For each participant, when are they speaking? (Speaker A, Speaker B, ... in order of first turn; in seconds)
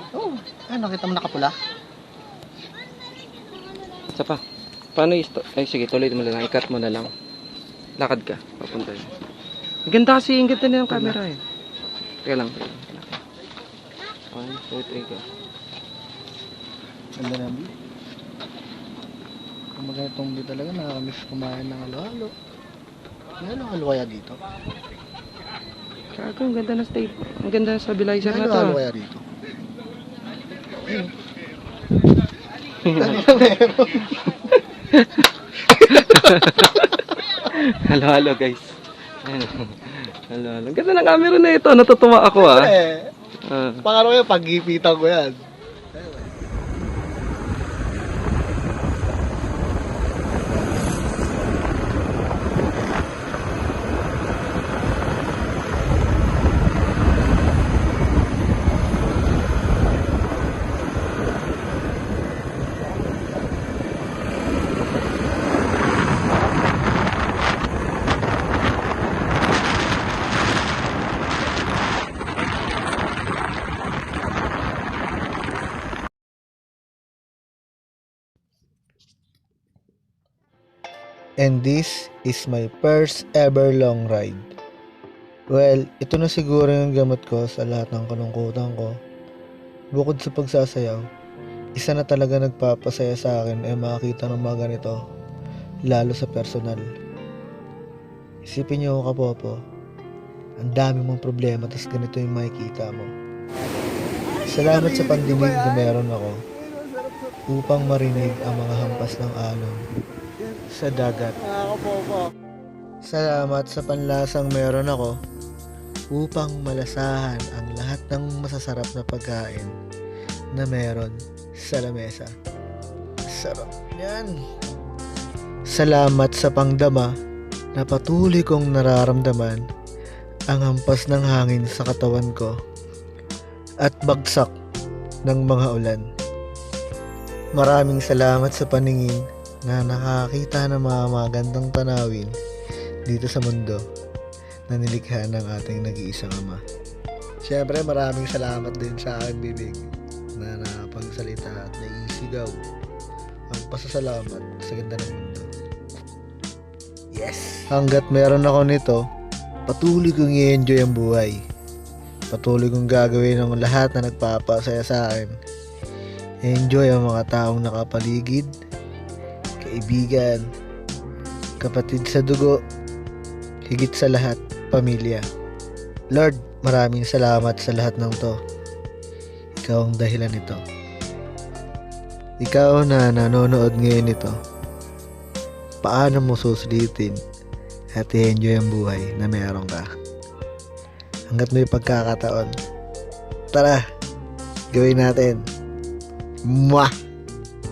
Speaker A: 0.1-1.5, 10.9-11.2, 17.2-17.7, 19.8-22.3, 23.4-24.4, 28.2-29.2, 32.9-34.2, 35.9-36.2, 42.3-43.1, 43.8-45.4, 45.9-46.3, 81.4-84.5, 85.5-88.9, 89.9-91.0, 91.7-95.0, 95.9-96.8, 98.5-99.6, 100.6-103.1, 104.3-106.4, 107.5-109.8, 110.5-112.2, 113.0-115.2, 116.1-119.7, 120.5-122.3, 123.3-124.4, 125.7-127.1, 127.7-129.6, 130.5-132.5, 133.8-134.5, 135.2-136.0, 137.6-142.3, 143.1-143.8, 144.7-146.6, 147.4-149.8, 150.4-152.6, 153.5-155.5, 157.1-159.0, 159.7-161.4, 162.3-165.3, 166.4-168.5, 169.6-170.4, 171.6-172.6, 173.7-175.2, 176.1-178.3, 179.6-180.6, 182.4-184.3, 185.8-187.2, 187.9-189.9, 191.3-192.5, 193.5-193.8, 194.7-195.4, 196.4-196.9
Speaker B: 4.1-4.4, 4.9-7.1, 8.0-9.1, 9.8-11.4, 12.2-13.2, 14.3-15.2, 26.1-28.8, 32.8-33.2, 34.5-42.7, 43.5-43.9